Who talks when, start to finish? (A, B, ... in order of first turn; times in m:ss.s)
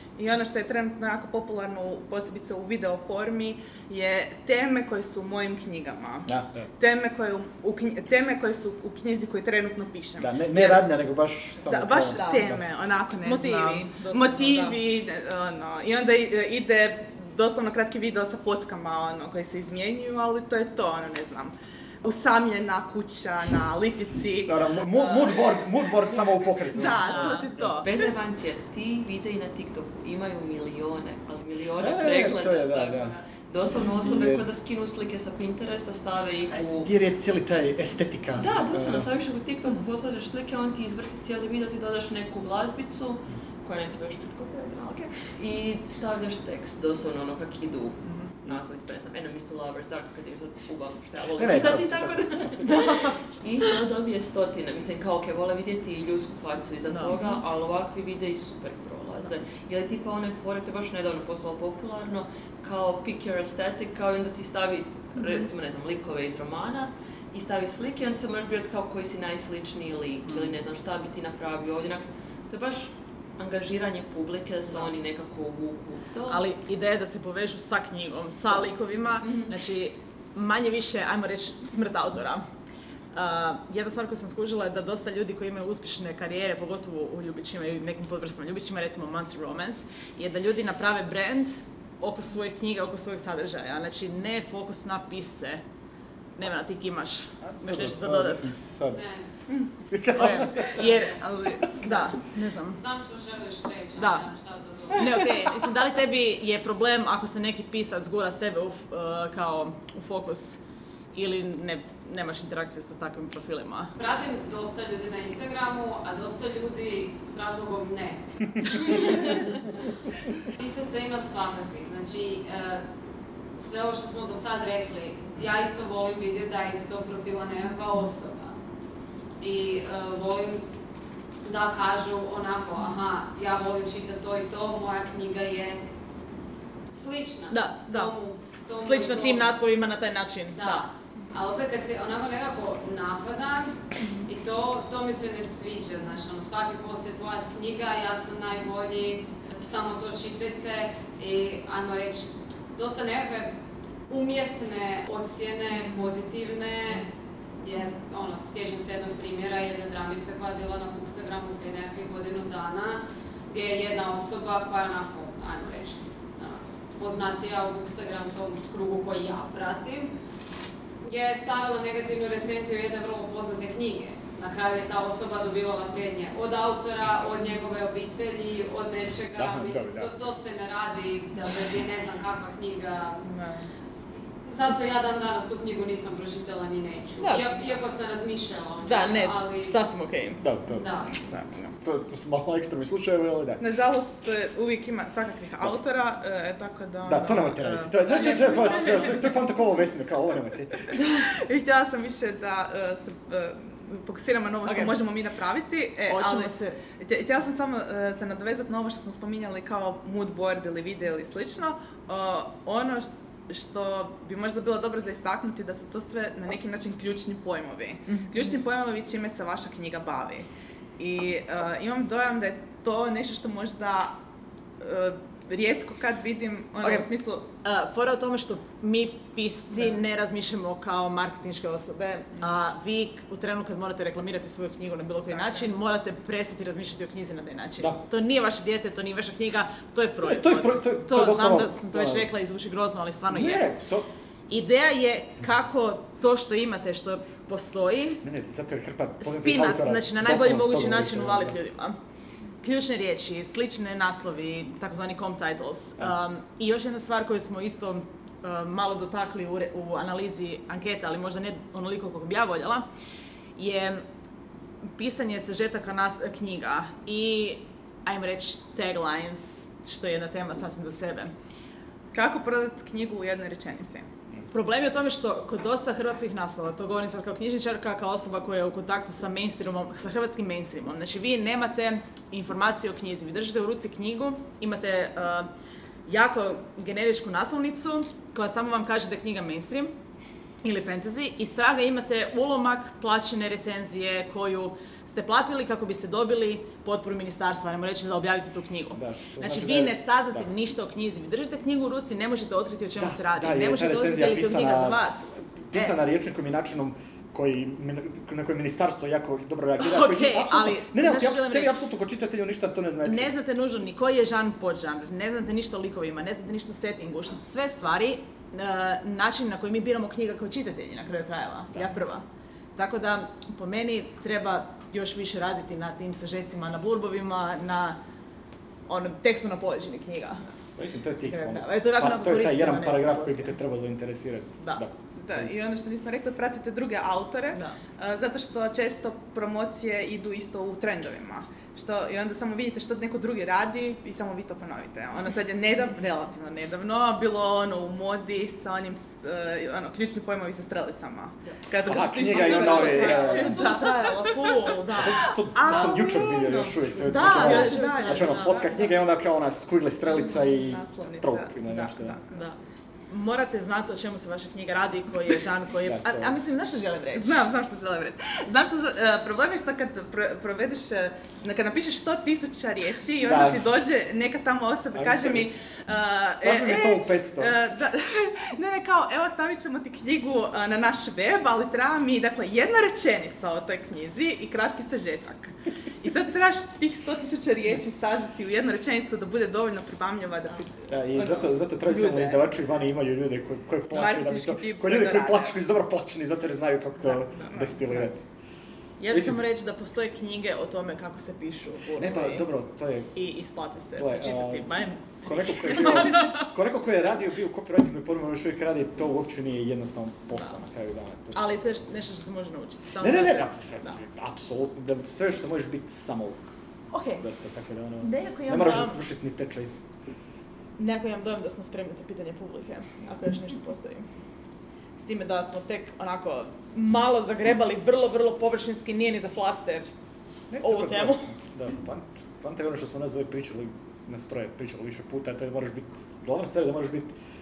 0:00.2-0:10.8 A
0:06.2-0:06.7 B
0:10.2-0:12.6 B
0:11.6-0:25.6 A
0:12.1-0:12.5 C
0:13.2-0:14.8 C
0:24.4-0:27.7 B
0:26.7-0:28.1 A
0:27.0-0:27.5 C
0:27.8-0:36.9 D
0:31.8-0:33.1 B
0:33.9-0:34.5 B
0:36.5-0:39.1 B
0:38.4-1:16.4 D
0:51.4-0:52.7 B
0:56.9-0:57.1 C
1:10.2-1:10.5 C
1:16.3-1:22.4 C
1:23.1-1:35.6 C
1:36.4-1:38.5 C
1:37.4-1:39.0 B
1:38.9-1:39.3 E
1:39.9-1:40.8 B
1:40.1-1:41.2 C
1:40.8-1:41.2 E
1:41.2-1:42.1 A
1:41.8-1:42.8 C
1:42.7-1:45.3 E
1:44.0-1:44.2 C
1:44.9-1:50.6 C
1:51.1-1:53.9 C
1:54.0-1:59.5 E
2:00.4-2:02.9 E
2:03.6-2:08.5 E
2:09.4-2:10.6 E
2:11.4-2:15.8 E
2:16.9-2:19.6 E
2:17.5-2:18.1 C
2:18.8-2:20.9 C
2:20.6-2:23.7 E
2:24.2-2:33.5 E
2:34.1-2:37.1 E
2:37.6-2:50.1 E
2:51.0-3:03.2 E
2:59.3-3:00.1 B
3:03.2-3:03.7 A
3:04.4-3:09.7 E
3:07.2-3:07.4 C
3:08.8-3:10.4 C
3:10.4-3:13.6 B
3:10.8-3:11.1 E
3:13.6-3:19.2 A
3:17.0-3:20.9 B
3:18.1-3:19.1 C
3:21.0-3:40.5 A
3:24.6-3:25.0 C
3:26.1-3:26.8 C
3:38.1-3:38.4 C
3:41.0-3:44.1 A
3:44.8-3:47.4 A
3:46.8-3:47.1 C
3:47.6-4:03.6 C
3:55.3-3:55.7 A
4:00.2-4:02.3 B
4:03.3-4:04.1 B
4:04.5-4:08.2 C
4:08.2-4:11.6 B
4:09.2-4:12.0 C
4:12.6-4:22.8 C
4:23.6-4:24.0 C
4:24.8-4:31.3 C
4:32.1-4:34.1 A
4:34.5-4:45.5 C
4:46.1-4:49.9 C
4:50.6-5:06.0 C
4:58.9-5:00.5 B
5:03.0-5:13.3 B
5:09.8-5:11.8 C
5:13.0-5:28.0 C
5:28.9-5:30.4 C
5:30.8-5:35.5 B
5:31.3-5:33.6 C
5:35.2-5:54.4 A
5:51.8-5:53.7 B
5:52.3-5:55.9 C
5:54.9-6:02.2 B
5:55.5-5:58.9 A
5:57.0-5:58.9 C
6:00.2-6:02.4 A
6:02.3-6:02.6 C
6:03.1-6:07.4 C
6:05.8-6:06.3 B
6:07.1-6:32.4 A
6:13.2-6:13.6 B
6:14.9-6:15.5 B
6:16.4-6:17.5 B
6:30.9-6:38.2 B
6:33.9-6:35.6 A
6:37.0-6:38.0 A
6:39.0-6:42.5 C
6:39.1-6:39.4 B
6:42.0-6:43.1 B
6:43.1-6:46.4 C
6:44.0-6:51.5 B
6:51.3-6:54.0 C
6:53.0-6:56.4 B
6:56.9-6:57.2 C
6:57.2-6:59.7 B
6:58.0-6:59.0 C
7:00.8-7:04.0 C
7:05.0-7:09.9 C
7:10.5-7:17.1 B
7:10.6-7:11.3 C